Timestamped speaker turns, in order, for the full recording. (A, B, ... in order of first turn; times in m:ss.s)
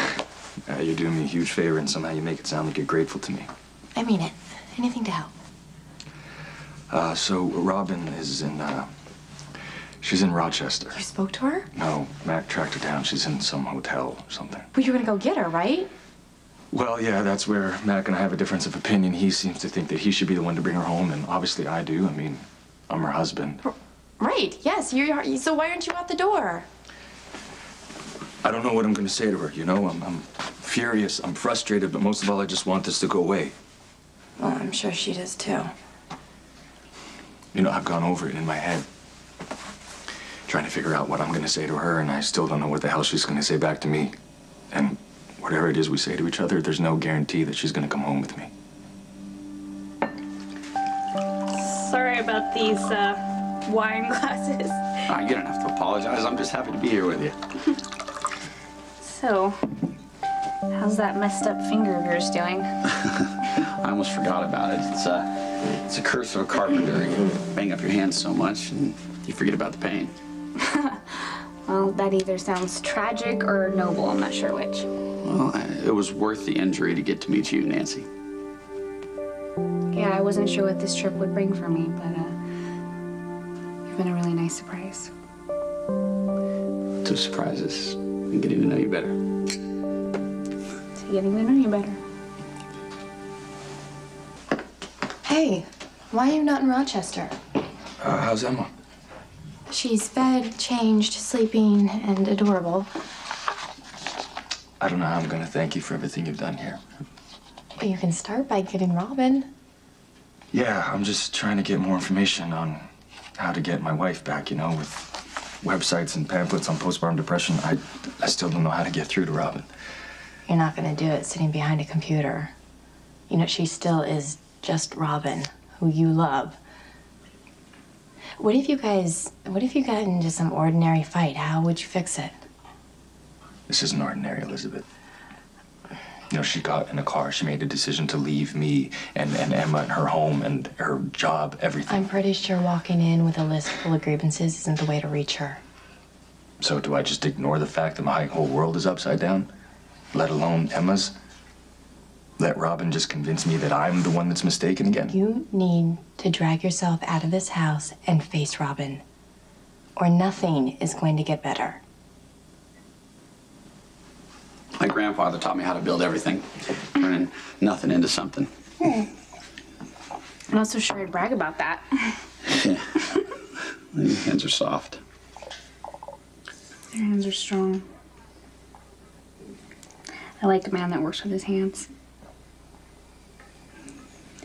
0:00.7-0:03.5 A
0:04.0-0:05.3 B
0:06.9-0:08.9 A
0:10.0-0:11.0 A
0:10.9-0:11.7 B
0:11.7-0:14.7 A
0:14.8-0:15.9 B
0:16.7-0:23.6 A
0:23.7-0:26.7 B
0:28.4-0:33.6 A
0:34.4-0:35.7 B
0:37.5-0:38.9 A
0:40.5-0:44.1 A
0:44.7-0:48.5 A
0:51.5-0:55.0 C
0:55.1-0:57.4 D
0:59.0-0:59.6 C
1:00.7-1:02.8 C
1:03.1-1:10.1 D
1:10.6-1:14.9 C
1:15.2-1:18.1 D
1:19.9-1:22.4 C
1:23.9-1:25.1 C
1:27.0-1:29.2 D
1:31.0-1:32.0 C
1:35.2-1:37.3 B
1:38.0-1:38.7 A
1:39.7-1:42.9 B
1:44.8-1:46.8 A
1:47.8-1:49.5 B
1:50.5-1:52.8 A
1:53.4-1:59.7 A
2:00.5-2:02.5 B
2:03.3-2:06.6 B
2:08.4-2:12.3 B
2:13.7-2:14.8 A
2:16.3-2:22.1 A
2:21.9-2:25.6 B
2:26.6-2:29.5 A
2:30.1-2:31.1 A
2:32.4-2:35.2 A
2:35.1-2:39.0 B
2:40.0-2:41.8 B
2:44.8-2:48.5 D
2:48.8-2:49.1 B
2:50.5-2:52.2 C
2:52.5-2:53.1 D
2:53.9-2:55.0 D
2:56.9-2:57.8 C
3:00.4-3:01.9 C